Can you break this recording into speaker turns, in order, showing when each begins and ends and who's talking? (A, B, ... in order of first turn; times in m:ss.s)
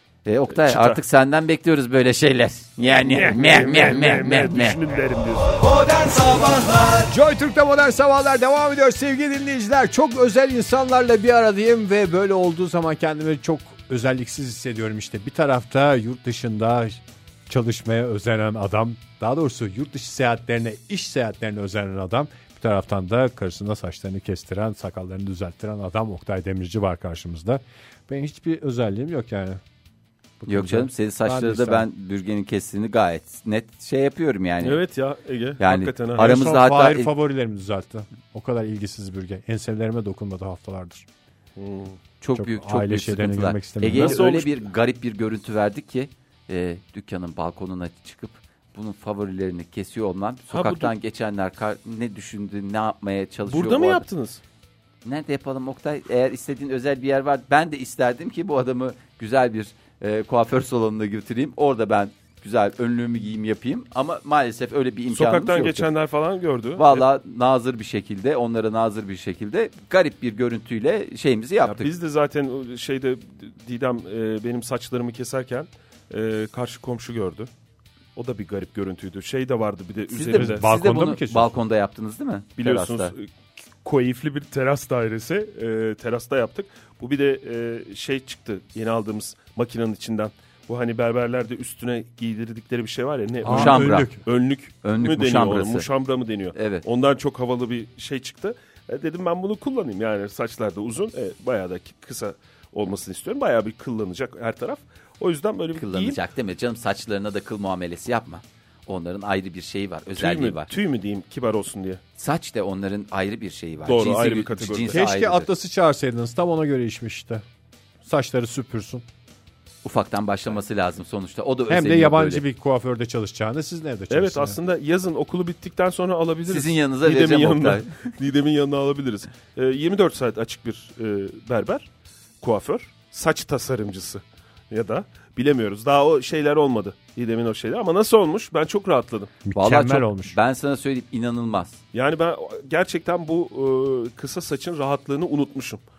0:00.2-0:04.8 A
0:00.5-0:01.0 B
0:03.0-0:06.6 B
0:07.1-0:29.6 C
0:30.4-0:31.9 C
0:30.5-0:34.8 A
0:34.6-0:36.3 B
0:35.6-0:37.1 A
0:36.2-0:41.1 C
0:41.6-0:42.0 B
0:42.2-0:54.0 A
0:42.4-0:44.2 C
0:43.9-0:44.6 B
0:50.5-0:50.9 B
0:53.5-0:54.4 B
0:55.0-1:05.9 A
1:05.1-1:07.1 B
1:06.8-1:11.9 A
1:11.6-1:17.5 B
1:18.2-1:20.6 B
1:20.1-1:23.1 A
1:20.3-1:21.5 C
1:22.6-1:23.3 B
1:23.8-1:46.2 B
1:33.4-1:34.2 C
1:33.5-1:34.1 A
1:34.8-1:35.9 A
1:36.6-1:36.8 A
1:45.8-1:50.7 A
1:50.2-1:52.0 B
1:52.2-1:55.5 A
1:53.8-1:55.0 B
1:54.9-1:57.4 C
1:58.0-1:59.0 C
1:59.8-2:02.4 A
2:01.7-2:04.6 C
2:04.1-2:11.9 B
2:06.5-2:08.0 A
2:12.4-2:19.3 B
2:19.4-2:20.4 C
2:19.6-2:21.8 A
2:21.9-2:25.8 B